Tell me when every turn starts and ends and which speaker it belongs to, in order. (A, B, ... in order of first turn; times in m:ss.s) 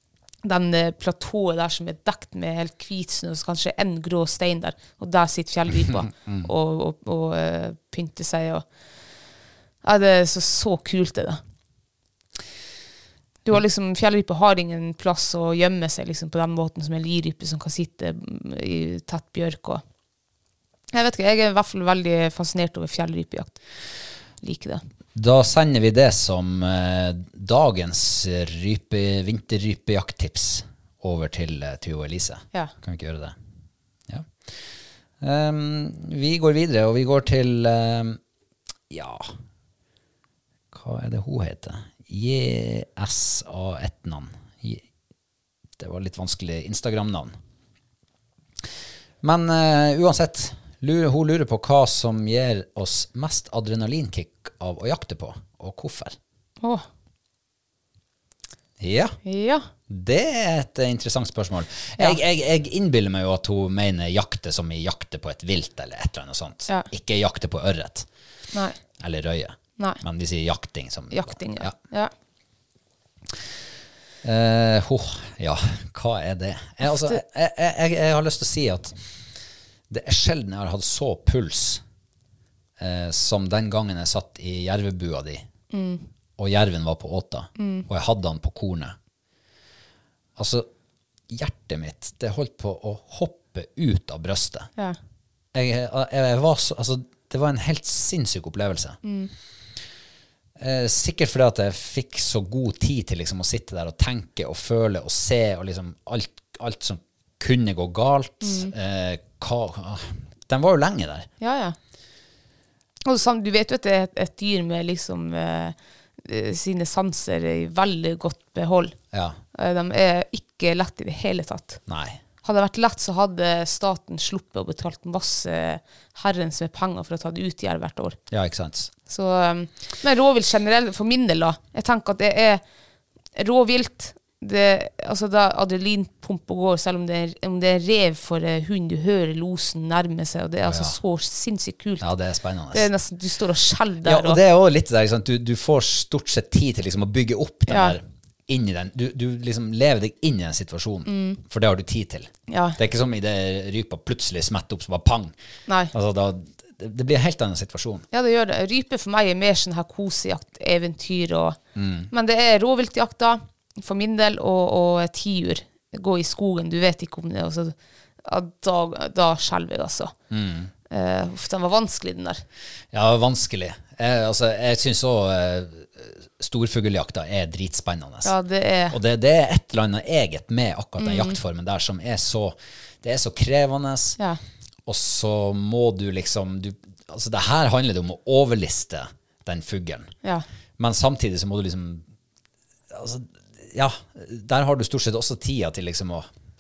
0:00.4-0:08.6 A
0:05.8-0:06.5 B
0:09.8-0:11.4 A
0:13.4-0:19.8 A
0:20.9-0:23.5 A
0:24.4-0:24.8 A
0:25.2-0:33.4 B
0:34.1-0:34.6 B
0:35.2-0:38.2 B
0:38.9-0:39.3 B
0:40.7-0:44.8 B
0:45.8-0:47.4 B
0:49.2-0:56.2 B
0:58.8-0:59.2 B
0:59.2-0:59.7 A
0:59.9-1:08.1 B
1:09.0-1:11.8 B
1:11.1-1:12.1 A
1:14.2-1:19.0 B
1:16.8-1:17.2 A
1:19.9-1:21.8 B
1:22.8-1:25.5 B
1:25.7-1:26.0 A
1:26.4-1:29.0 B
1:27.6-1:27.9 A
1:30.4-1:30.7 B
1:31.3-1:34.7 B
1:35.5-1:39.0 B
1:39.0-1:39.3 A
1:40.6-1:51.3 B
1:48.4-1:48.7 A
1:51.4-1:51.8 A
1:53.1-1:59.0 A
1:59.1-1:59.4 B
1:59.6-2:01.8 A
2:01.9-2:02.2 B
2:02.4-2:08.2 A
2:08.3-2:08.9 B
2:09.1-2:12.6 A
2:13.4-2:22.1 A
2:20.6-2:21.0 B
2:22.0-2:22.9 B
2:22.7-2:24.4 A
2:24.0-2:35.4 B
2:27.7-2:28.0 A
2:31.1-2:31.4 A
2:32.5-2:32.8 A
2:35.7-2:35.9 A
2:35.9-2:38.1 B
2:38.1-2:41.6 A
2:41.8-2:42.1 B
2:42.1-2:50.1 A
2:50.3-2:50.7 B
2:50.9-2:52.4 A
2:52.9-2:58.3 B
2:58.2-2:59.0 A
2:58.9-3:04.2 B
3:01.0-3:01.4 A
3:04.9-3:10.1 B
3:10.8-3:12.1 B
3:12.9-3:16.3 B